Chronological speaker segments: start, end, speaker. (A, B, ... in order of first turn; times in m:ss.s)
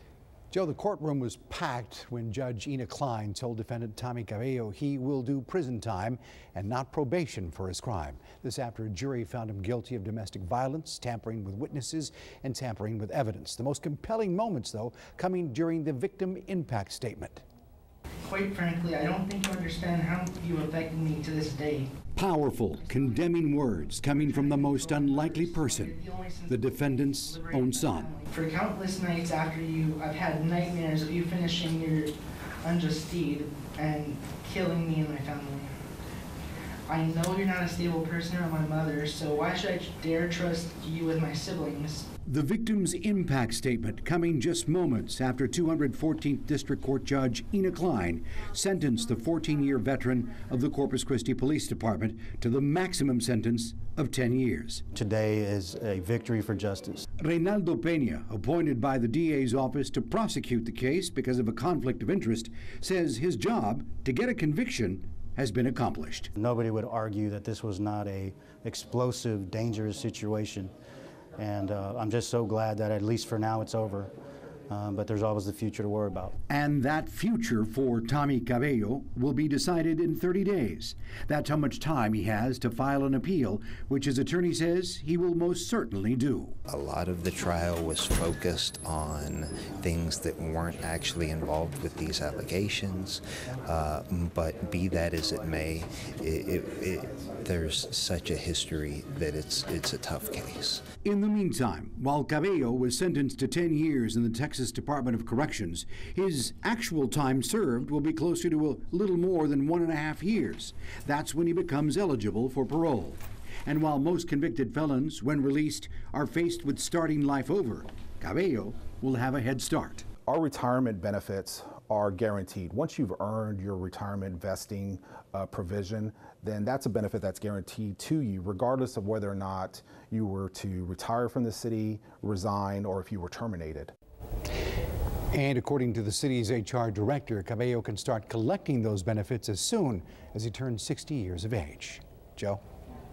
0:00.5-0:17.4 A
0:18.2-0:21.9 B
0:22.1-0:25.9 A
0:24.1-0:35.8 B
0:26.5-0:28.1 A
0:36.9-0:42.0 B
0:42.2-0:54.8 A
0:54.9-0:57.0 C
0:57.2-1:06.3 A
1:06.3-1:10.7 C
1:11.4-1:14.1 C
1:14.7-1:16.4 C
1:16.5-1:26.6 A
1:26.7-1:40.8 D
1:41.0-2:00.0 A
2:00.3-2:13.9 E
2:15.3-2:22.6 A